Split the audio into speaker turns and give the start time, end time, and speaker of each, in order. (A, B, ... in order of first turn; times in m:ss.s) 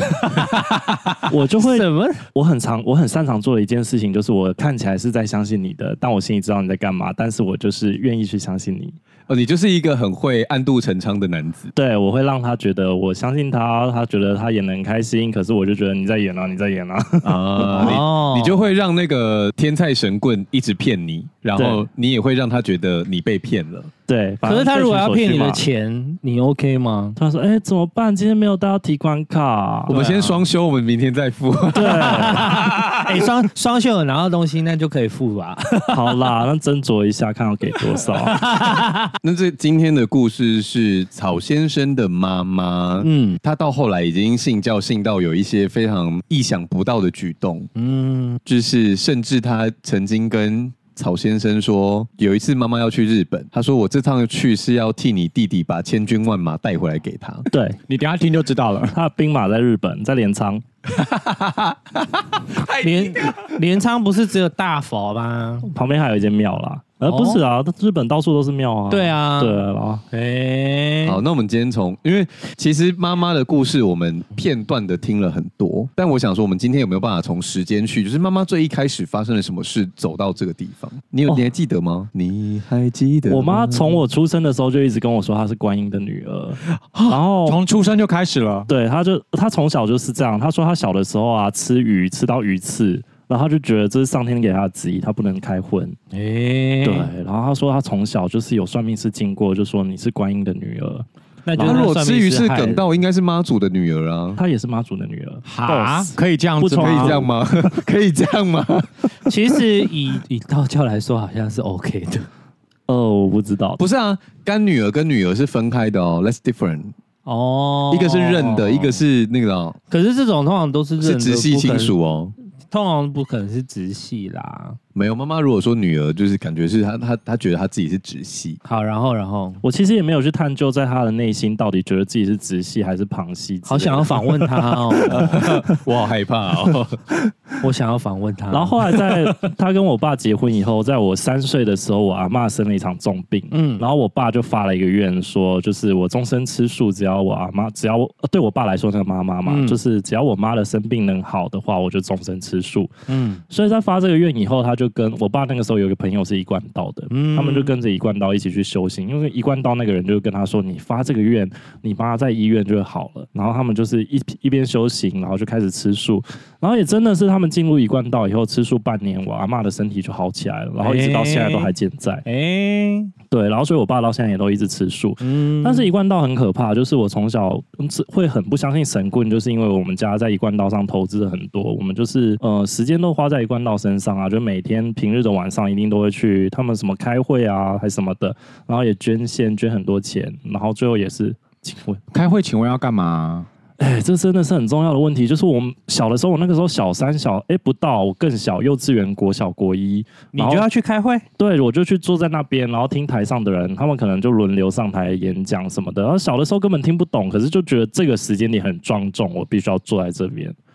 0:00.2-0:02.2 A
0:01.2-0:09.0 B
0:09.3-0:11.7 C
0:11.7-0:18.0 B
0:17.2-0:23.9 C
0:17.8-0:18.6 A
0:21.6-0:21.8 B
0:24.1-0:25.6 B
0:24.4-0:27.2 A
0:27.2-0:30.0 B
0:29.9-0:33.2 C
0:29.9-0:30.4 A
0:31.7-0:32.5 B
0:31.8-0:36.2 A
0:35.9-0:38.4 B
0:38.0-0:39.1 A
0:39.2-0:47.7 C
0:43.0-0:43.4 A
0:47.7-0:48.4 A
0:48.4-0:57.5 C
0:57.5-0:57.8 B
0:57.9-0:59.0 D
0:58.9-1:00.6 B
1:00.9-1:03.6 C
1:02.7-1:05.7 A
1:05.7-1:10.0 B
1:07.0-1:07.4 A
1:08.9-1:11.2 A
1:11.0-1:24.0 C
1:23.3-1:27.6 B
1:26.8-1:27.2 C
1:27.4-1:28.7 D
1:28.7-1:36.0 B
1:36.1-1:37.1 A
1:36.8-1:41.0 B
1:41.4-1:42.8 A
1:41.6-1:41.9 B
1:41.6-1:44.4 C
1:44.4-1:47.3 B
1:45.4-1:47.3 D
1:46.7-1:49.0 C
1:49.2-1:52.3 A
1:52.9-1:53.8 B
1:53.8-1:56.9 C
1:57.2-1:58.9 A
1:57.9-1:59.8 C
1:59.9-2:01.9 A
2:01.0-2:02.3 C
2:02.7-2:04.8 A
2:04.9-2:08.6 C
2:08.6-2:09.6 A
2:09.6-2:15.6 B
2:13.6-2:15.3 A
2:15.0-2:17.1 C
2:17.6-2:18.8 A
2:18.5-2:32.9 B
2:23.5-2:23.8 A
2:29.4-2:29.8 A
2:33.1-2:33.4 A
2:33.5-2:52.2 B
2:37.1-2:37.7 A
2:50.8-2:51.7 A
2:52.2-2:53.1 A
2:53.3-3:12.0 B
2:55.2-2:55.9 A
3:12.1-3:13.5 D
3:13.8-3:20.6 B
3:20.3-3:21.2 A
3:21.4-3:30.5 B